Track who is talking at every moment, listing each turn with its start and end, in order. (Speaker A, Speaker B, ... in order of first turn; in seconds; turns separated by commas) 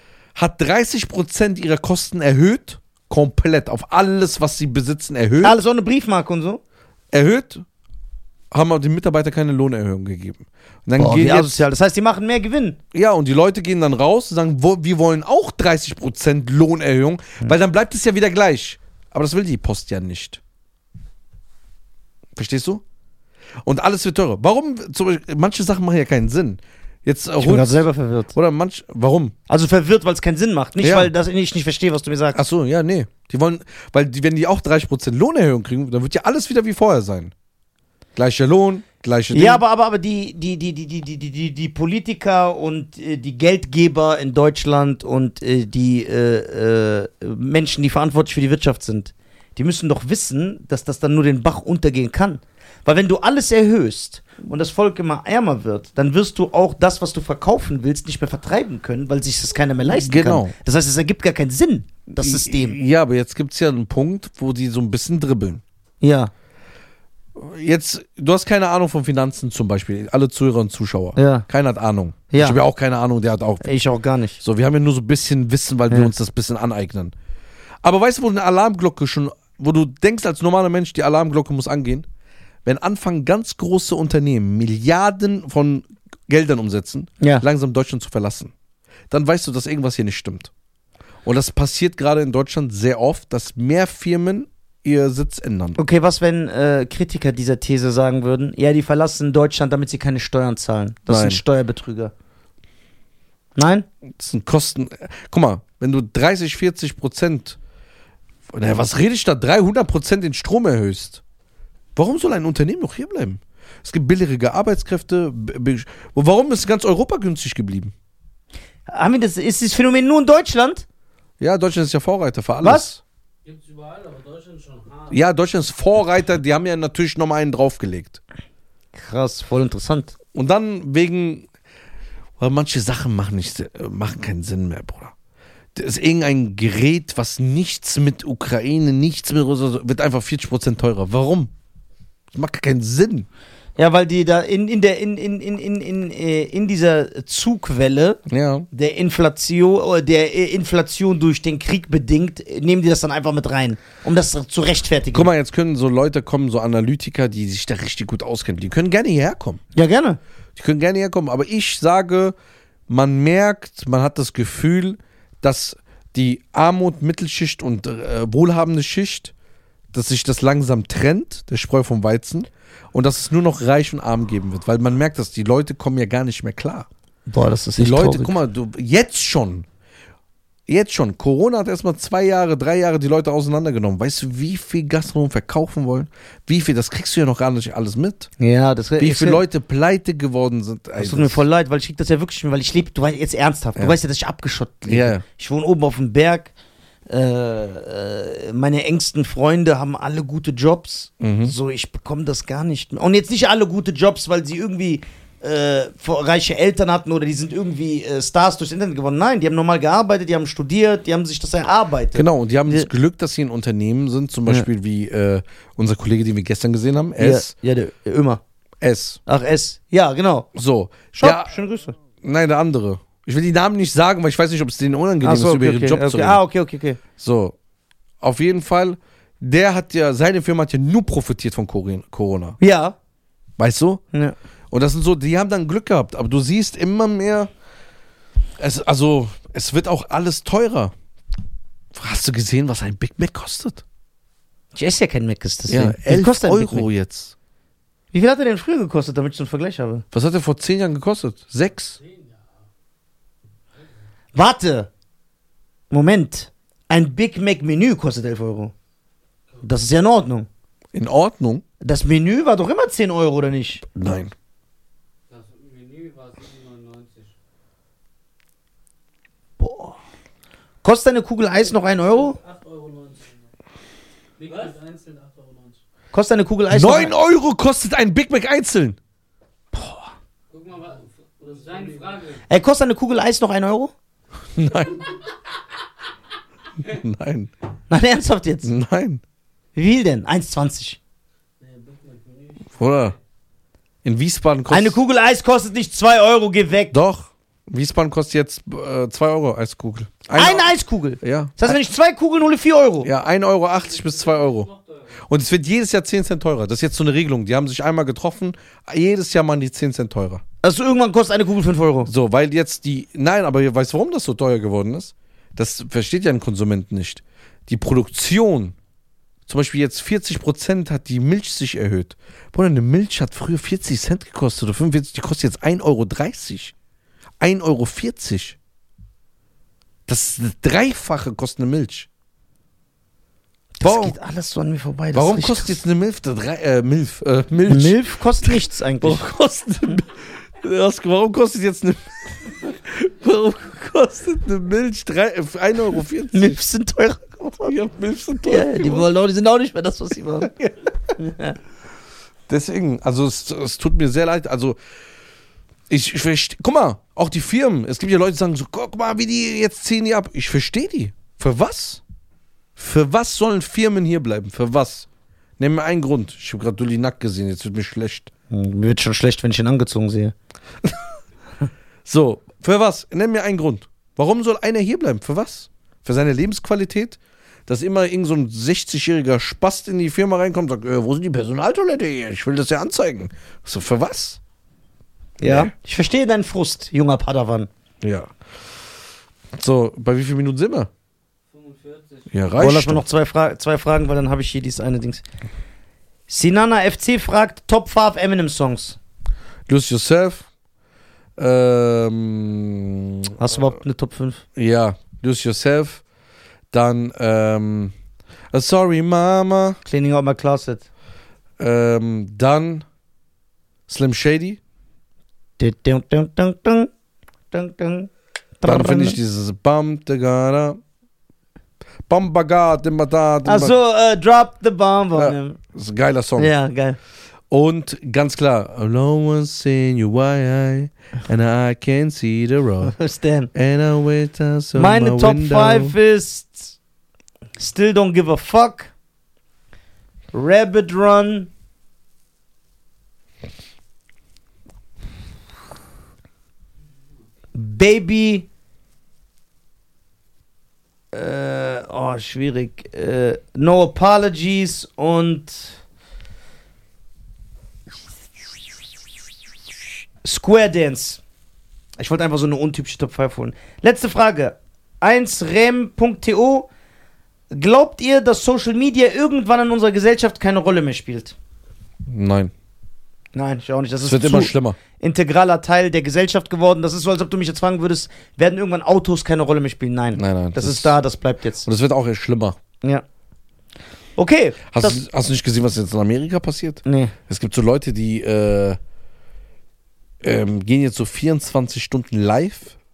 Speaker A: 0.4-5.6, Speaker B: 5.4-6.6, Speaker A: 7.1-7.7, Speaker A: 8.5-11.6, Speaker B: 11.0-12.8, Speaker A: 12.9-20.4, Speaker A: 22.4-22.8, Speaker A: 23.6-29.4, Speaker B: 27.4-28.3, Speaker B: 29.5-32.4, Speaker A: 30.8-31.1, Speaker A: 32.3-37.3, Speaker A: 38.2-39.6, Speaker B: 39.3-62.8, Speaker A: 59.9-60.5, Speaker A: 62.2-65.6, Speaker B: 66.0-66.3, Speaker A: 67.4-73.7, Speaker B: 71.2-71.5, Speaker B: 72.3-72.6, Speaker B: 73.6-74.4, Speaker A: 74.4-77.1, Speaker A: 77.8-82.1, Speaker A: 82.7-88.5, Speaker B: 87.2-87.5, Speaker A: 89.1-90.5, Speaker A: 91.2-95.8, Speaker B: 95.8-102.1, Speaker A: 101.1-101.4, Speaker B: 103.5-103.9, Speaker A: 104.2-107.6, Speaker A: 108.5-111.2, Speaker A: 112.0-117.9, Speaker B: 118.9-120.8, Speaker A: 121.4-123.0, Speaker B: 122.6-122.9, Speaker C: 123.5-125.2, Speaker A: 125.1-128.2, Speaker B: 128.9-130.2, Speaker A: 130.3-131.5, Speaker A: 132.4-135.1, Speaker A: 135.8-141.5, Speaker A: 142.3-143.3, Speaker B: 143.8-148.2, Speaker A: 148.3-148.7, Speaker B: 148.7-155.3, Speaker A: 155.1-159.6, Speaker B: 159.8-160.2, Speaker A: 160.6-162.3, Speaker A: 162.9-169.3, Speaker A: 169.9-176.9, Speaker B: 177.3-178.4, Speaker A: 177.8-179.7, Speaker A: 180.7-188.3, Speaker B: 188.4-189.4, Speaker A: 189.0-191.4, Speaker B: 191.0-196.5, Speaker A: 194.9-195.2, Speaker B: 197.1-212.9, Speaker A: 201.2-201.6, Speaker A: 212.2-217.5, Speaker B: 217.2-218.4, Speaker A: 218.8-219.2, Speaker B: 219.3-220.5, Speaker A: 220.6-221.5, Speaker B: 221.2-222.0, Speaker A: 222.2-226.4, Speaker B: 225.2-227.0, Speaker A: 227.2-227.6, Speaker A: 228.2-232.6, Speaker B: 232.6-232.9, Speaker A: 233.6-234.0, Speaker A: 234.7-237.5, Speaker A: 238.6-240.9, Speaker A: 241.9-243.8, Speaker B: 244.7-246.9, Speaker A: 245.7-247.3, Speaker B: 248.1-250.1, Speaker A: 250.1-252.0, Speaker C: 252.0-252.5, Speaker B: 254.3-254.9, Speaker B: 255.9-258.7, Speaker B: 259.6-260.5, Speaker A: 260.9-261.6, Speaker B: 261.8-263.8, Speaker A: 263.9-264.3, Speaker C: 265.3-267.3, Speaker B: 269.6-270.0, Speaker B: 270.8-272.4, Speaker C: 271.9-273.4, Speaker C: 274.4-275.8, Speaker B: 276.1-277.1, Speaker A: 276.7-279.0, Speaker B: 279.7-280.1, Speaker C: 280.5-282.4, Speaker B: 282.5-283.9, Speaker A: 284.5-285.1, Speaker A: 286.8-287.5, Speaker B: 287.9-288.7, Speaker A: 288.6-289.2, Speaker B: 289.8-291.0, Speaker C: 291.6-293.2, Speaker A: 292.8-293.2, Speaker A: 294.0-295.0, Speaker B: 294.7-296.9, Speaker A: 296.9-301.7, Speaker B: 300.4-303.1, Speaker A: 303.0-310.4, Speaker C: 303.8-305.2, Speaker B: 310.6-312.1, Speaker A: 312.1-318.8, Speaker A: 319.5-326.7, Speaker A: 327.4-328.6, Speaker A: 330.1-332.1, Speaker B: 333.8-335.8, Speaker A: 333.8-334.2, Speaker A: 335.1-346.6, Speaker B: 337.7-339.3, Speaker B: 346.3-347.7, Speaker A: 347.6-349.1, Speaker B: 348.5-350.5, Speaker B: 351.2-351.6, Speaker A: 352.5-354.8, Speaker A: 355.9-362.0, Speaker A: 362.8-365.1, Speaker A: 365.6-368.3, Speaker B: 368.5-370.4, Speaker A: 372.1-384.4, Speaker B: 385.4-387.7, Speaker A: 385.4-385.7, Speaker A: 388.0-388.3, Speaker A: 389.5-390.9, Speaker C: 391.5-392.5, Speaker A: 392.3-393.0, Speaker B: 392.6-395.2, Speaker B: 396.3-399.0, Speaker A: 399.7-400.5, Speaker A: 401.4-403.3, Speaker B: 403.4-404.4, Speaker A: 404.6-406.0, Speaker A: 406.7-407.9, Speaker A: 408.5-409.8, Speaker B: 409.9-410.9, Speaker A: 411.6-412.9, Speaker A: 413.9-414.6, Speaker B: 415.6-416.9, Speaker B: 417.5-418.1, Speaker B: 418.6-419.2, Speaker A: 418.6-420.8, Speaker A: 422.1-423.8, Speaker B: 423.4-425.6, Speaker A: 425.1-426.5, Speaker B: 426.4-427.0, Speaker A: 427.5-432.9, Speaker B: 432.8-433.5, Speaker A: 433.5-435.9, Speaker B: 434.8-436.8, Speaker B: 437.6-438.9, Speaker B: 440.3-441.5, Speaker B: 447.5-448.5, Speaker B: 451.1-455.8, Speaker B: 460.2-461.2, Speaker B: 462.0-466.7, Speaker B: 467.5-471.4, Speaker A: 472.1-472.5, Speaker B: 473.3-481.7, Speaker A: 474.0-474.8, Speaker A: 480.1-481.0, Speaker A: 481.6-482.6, Speaker B: 484.2-485.0, Speaker A: 484.7-488.8, Speaker B: 486.9-487.1, Speaker A: 490.2-492.8